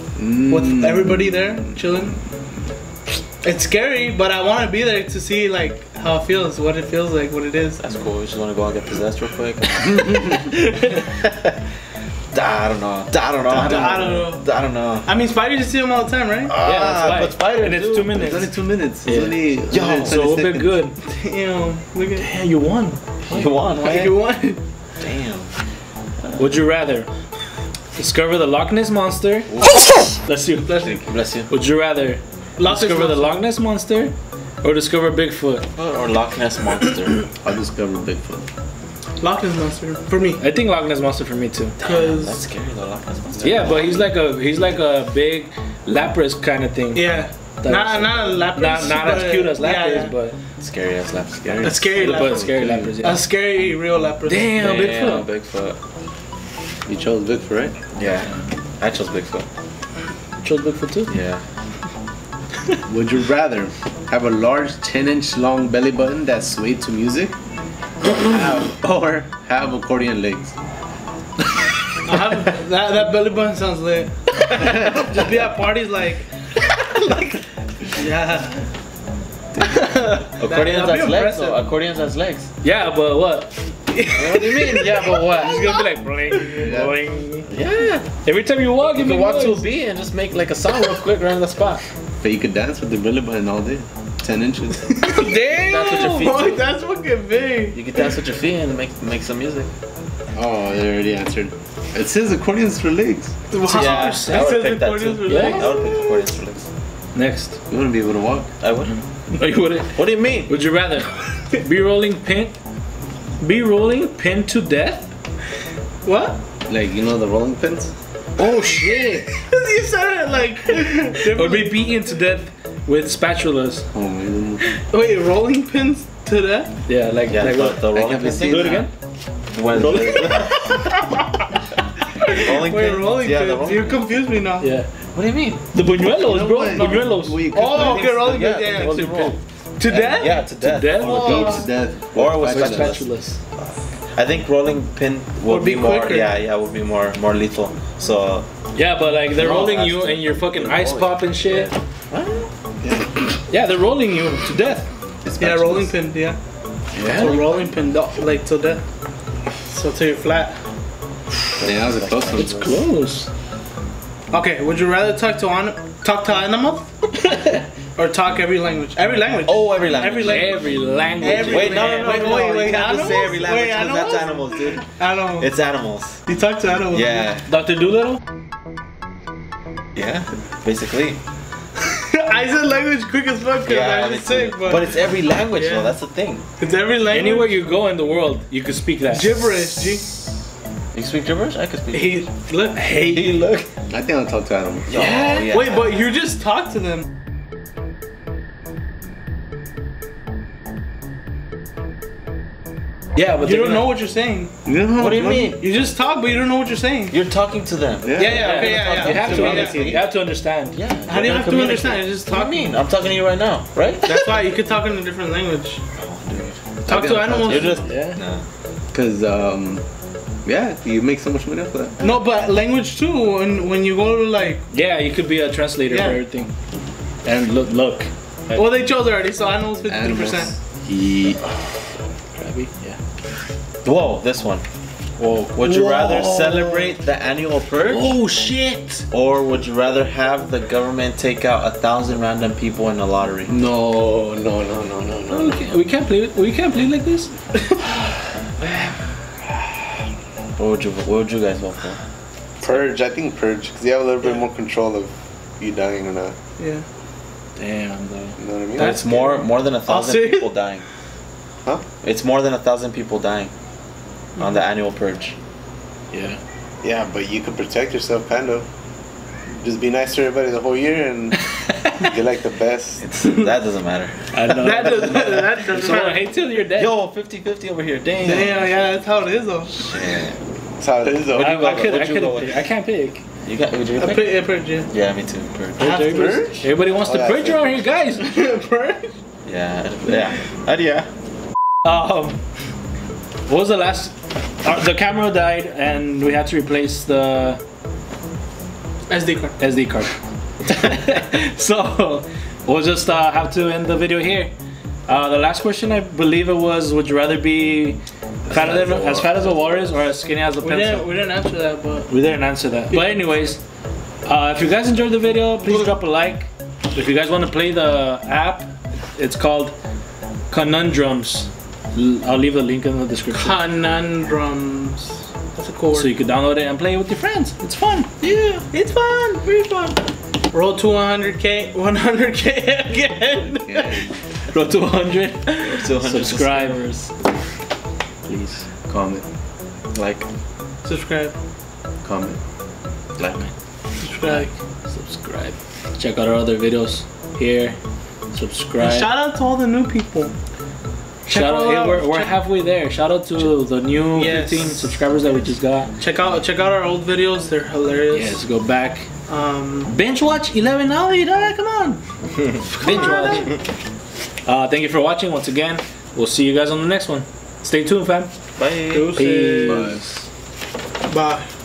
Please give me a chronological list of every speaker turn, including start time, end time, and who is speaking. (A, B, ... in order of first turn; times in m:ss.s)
0:00.2-0:01.6 A
0:00.4-0:02.2 B
0:03.4-0:07.8 B
0:07.8-0:10.2 C
0:10.0-0:10.8 D
0:12.3-0:15.1 C
0:13.5-0:14.5 B
0:15.0-0:16.6 B
0:16.4-0:18.3 C
0:16.6-0:21.0 D
0:18.1-0:20.8 A
0:19.7-0:20.4 C
0:21.0-0:22.3 B
0:22.2-0:23.0 D
0:23.2-0:24.2 C
0:23.7-0:24.6 B
0:25.0-0:25.5 C
0:26.2-0:26.5 C
0:26.4-0:27.1 D
0:28.0-0:29.5 D
0:29.5-0:30.0 C
0:30.1-0:35.6 D
0:30.6-0:30.9 B
0:30.8-0:31.5 C
0:32.6-0:33.4 B
0:35.7-0:37.2 C
0:37.4-0:38.5 A
0:39.2-0:40.4 B
0:40.4-0:41.8 D
0:41.8-0:44.1 C
0:41.8-0:42.4 B
0:43.4-0:43.7 A
0:43.4-0:50.4 D
0:46.9-0:50.1 B
0:50.6-0:52.3 C
0:51.6-0:54.5 B
0:51.7-0:53.2 D
0:52.4-0:52.9 A
0:54.2-0:55.3 D
0:54.6-0:55.8 C
0:56.8-0:57.7 A
0:57.9-0:59.5 C
1:00.4-1:01.1 D
1:01.1-1:01.4 C
1:02.9-1:07.3 A
1:08.1-1:10.6 A
1:08.3-1:08.7 C
1:12.0-1:16.3 B
1:17.9-1:18.6 B
1:19.6-1:21.6 B
1:20.3-1:22.5 C
1:22.6-1:23.5 D
1:23.9-1:25.8 B
1:24.1-1:25.6 C
1:24.7-1:27.5 D
1:26.6-1:26.9 A
1:27.5-1:28.1 C
1:28.2-1:29.7 D
1:28.9-1:31.8 C
1:32.2-1:35.2 A
1:35.0-1:37.8 B
1:35.1-1:36.6 C
1:35.7-1:36.3 D
1:37.7-1:39.7 C
1:40.3-1:43.3 A
1:43.5-1:46.1 B
1:43.7-1:44.6 D
1:43.7-1:46.6 C
1:45.2-1:45.7 D
1:47.1-1:47.6 D
1:47.7-1:48.5 A
1:48.6-1:48.9 C
1:48.8-1:52.6 D
1:49.9-1:50.5 C
1:53.4-1:55.1 D
1:56.0-1:56.4 B
1:56.7-1:57.9 A
1:58.4-1:59.3 D
1:59.4-2:02.0 B
2:01.2-2:03.9 D
2:03.9-2:04.6 A
2:04.6-2:06.7 B
2:06.9-2:08.9 D
2:07.3-2:08.8 C
2:07.9-2:08.9 A
2:09.5-2:10.8 C
2:09.8-2:10.3 D
2:10.2-2:10.9 B
2:12.2-2:14.7 B
2:12.4-2:14.1 C
2:14.6-2:14.9 D
2:15.1-2:15.6 C
2:15.7-2:17.7 D
2:16.1-2:18.3 A
2:16.7-2:20.4 B
2:17.8-2:28.5 C
2:20.6-2:21.7 D
2:21.0-2:21.6 B
2:21.0-2:23.0 A
2:22.4-2:23.4 D
2:25.4-2:26.3 B
2:28.7-2:31.7 D
2:29.3-2:32.5 C
2:32.8-2:33.3 A
2:33.5-2:34.9 D
2:35.2-2:35.9 A
2:35.4-2:36.4 B
2:36.9-2:37.4 A
2:37.0-2:38.8 B
2:37.1-2:37.4 D
2:39.7-2:40.6 B
2:41.6-2:42.7 C
2:41.6-2:42.7 A
2:42.4-2:43.3 D
2:44.3-2:47.0 B
2:47.2-2:47.6 D
2:48.0-2:50.6 B
2:49.4-2:50.8 C
2:50.2-2:52.4 D
2:51.2-2:55.5 B
2:51.3-2:56.2 C
2:56.2-2:57.3 B
2:56.9-2:57.5 C
2:57.5-2:58.2 D
2:59.9-3:01.2 C
3:02.0-3:04.9 B
3:03.6-3:06.4 C
3:05.6-3:05.9 B
3:06.6-3:07.6 B
3:07.1-3:09.5 D
3:09.1-3:10.0 B
3:10.9-3:12.2 C
3:11.9-3:13.2 B
3:12.9-3:13.7 C
3:13.9-3:14.9 A
3:14.9-3:16.0 C
3:15.0-3:17.0 B
3:23.2-3:23.9 D
3:23.4-3:24.5 B
3:24.6-3:25.6 A
3:25.0-3:25.6 C
3:25.5-3:27.1 B
3:27.1-3:34.4 C
3:28.0-3:28.5 A
3:28.2-3:29.8 B
3:28.3-3:30.8 D
3:29.2-3:29.9 A
3:31.1-3:32.8 B
3:34.0-3:35.8 B
3:36.0-3:36.6 C
3:36.8-3:37.8 B
3:36.8-3:37.8 A
3:37.4-3:38.4 C
3:37.8-3:38.2 D
3:38.9-3:39.8 A
3:40.4-3:42.1 A
3:42.0-3:44.6 B
3:44.7-3:46.5 D
3:45.9-3:46.2 B
3:47.2-3:48.8 D
3:48.5-3:50.5 B
3:49.9-3:51.4 A
3:52.4-3:53.0 D
3:53.8-3:54.6 C
3:55.2-3:57.0 D
3:55.5-3:58.2 C
3:57.8-3:59.0 D
3:59.1-4:03.5 C
4:03.5-4:05.8 A
4:05.3-4:07.3 D
4:10.6-4:12.0 C
4:12.6-4:16.4 A
4:16.6-4:16.8 B
4:17.6-4:18.4 D
4:18.4-4:19.0 A
4:18.8-4:20.8 C
4:18.8-4:20.5 B
4:22.0-4:23.5 C
4:24.4-4:24.6 B
4:24.4-4:25.4 C
4:26.1-4:26.4 D
4:26.8-4:28.6 A
4:29.5-4:31.4 A
4:31.6-4:32.0 D
4:32.0-4:33.0 A
4:33.0-4:34.9 C
4:34.3-4:37.0 D
4:34.6-4:36.2 B
4:36.7-4:38.7 C
4:38.2-4:40.0 B
4:39.7-4:40.4 C
4:40.8-4:41.6 A
4:41.2-4:42.7 C
4:41.3-4:43.2 D
4:43.4-4:46.0 C
4:44.0-4:44.9 B
4:45.8-4:48.2 D
4:45.8-4:47.7 A
4:45.8-4:46.6 B
4:48.1-4:49.1 B
4:49.4-4:51.1 C
4:51.8-4:52.4 D
4:53.5-4:57.6 D
4:59.1-4:59.6 B
4:59.6-5:04.5 D
5:05.1-5:11.1 D
5:08.4-5:09.9 A
5:10.6-5:12.1 B
5:12.1-5:13.6 D
5:12.9-5:13.2 B
5:14.2-5:19.7 D
5:20.5-5:23.6 D
5:23.3-5:26.1 B
5:25.9-5:28.1 D
5:28.2-5:28.6 C
5:28.7-5:29.5 B
5:30.5-5:34.1 B
5:33.6-5:34.1 A
5:34.5-5:37.1 D
5:35.6-5:36.8 C
5:38.2-5:38.7 D
5:38.9-5:39.2 A
5:39.9-5:40.3 C
5:40.8-5:41.3 B
5:42.0-5:42.4 A
5:43.2-5:43.5 C
5:43.2-5:43.5 D
5:44.0-5:44.5 B
5:44.0-5:47.8 D
5:48.3-5:49.1 D
5:48.8-5:50.3 B
5:51.3-5:52.4 B
5:51.3-5:55.9 D
5:54.1-5:55.0 B
5:56.0-5:58.4 B
5:58.1-5:59.1 D
5:59.3-5:59.9 B
5:59.9-6:02.0 D
6:02.7-6:03.5 D
6:02.8-6:03.4 B
6:04.4-6:08.3 D
6:08.6-6:09.2 C
6:08.9-6:09.9 B
6:09.0-6:10.1 D
6:09.6-6:09.9 A
6:11.1-6:11.5 B